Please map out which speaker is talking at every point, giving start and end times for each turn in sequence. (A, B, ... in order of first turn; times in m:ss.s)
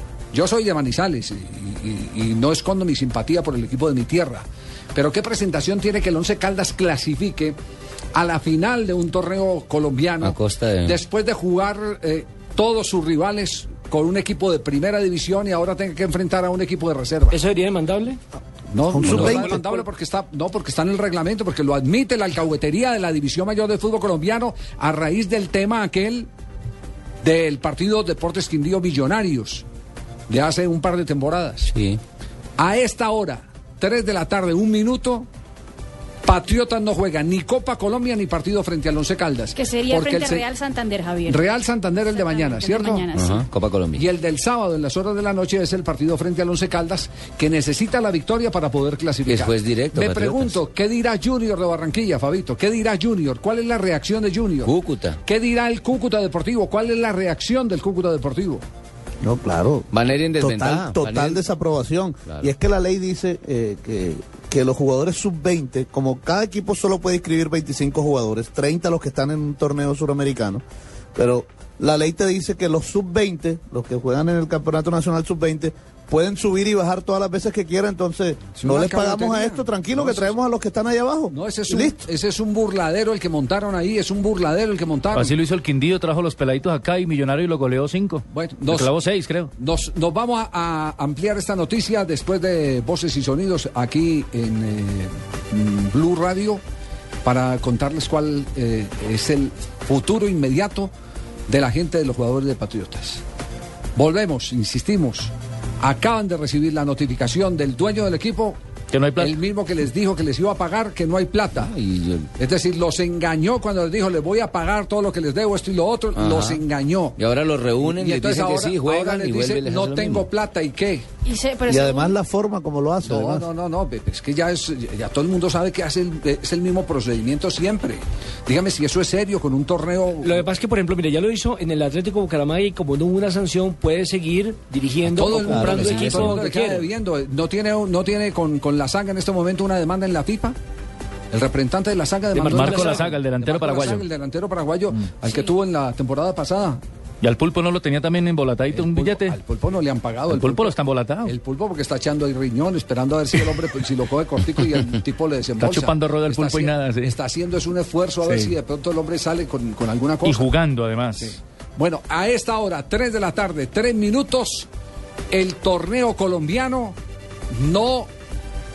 0:00.3-0:07.6 A
0:08.1-0:17.4 A
0:10.2-0:11.0 B
0:17.3-0:18.2 C
0:18.7-0:26.3 A
0:18.9-0:19.6 D
0:27.2-0:29.6 A
0:30.3-0:31.7 A
0:31.7-0:32.0 B
0:32.6-0:35.3 A
0:36.2-0:40.5 A
0:39.6-0:41.4 E
0:41.2-0:43.1 A
0:42.2-0:43.4 E
0:43.1-0:44.0 B
0:44.0-0:58.6 A
0:49.3-0:50.6 B
0:54.6-0:55.2 B
0:59.2-1:10.6 D
0:59.9-1:01.4 B
1:11.1-1:22.1 D
1:18.5-1:20.4 A
1:21.3-1:25.4 A
1:25.1-1:29.5 F
1:28.3-1:28.9 A
1:29.5-1:36.6 A
1:37.2-1:40.9 A
1:41.5-1:43.2 A
1:44.0-1:48.6 A
1:48.9-1:49.4 F
1:49.2-1:51.7 A
1:51.5-1:52.3 B
1:52.4-1:57.2 A
1:56.1-1:56.6 B
1:57.2-2:00.3 B
1:57.8-2:01.0 A
2:01.2-2:02.1 E
2:01.7-2:03.4 D
2:03.0-2:10.5 A
2:10.2-2:16.9 C
2:15.0-2:20.6 A
2:15.5-2:16.4 B
2:21.3-2:26.8 A
2:22.3-2:23.0 C
2:22.4-2:24.0 F
2:27.2-2:29.4 F
2:28.7-2:40.5 A
2:30.3-2:31.3 F
2:35.6-2:37.1 F
2:38.2-2:38.5 F
2:40.2-2:41.3 F
2:41.2-2:44.7 A
2:45.3-2:47.0 A
2:47.5-2:48.1 A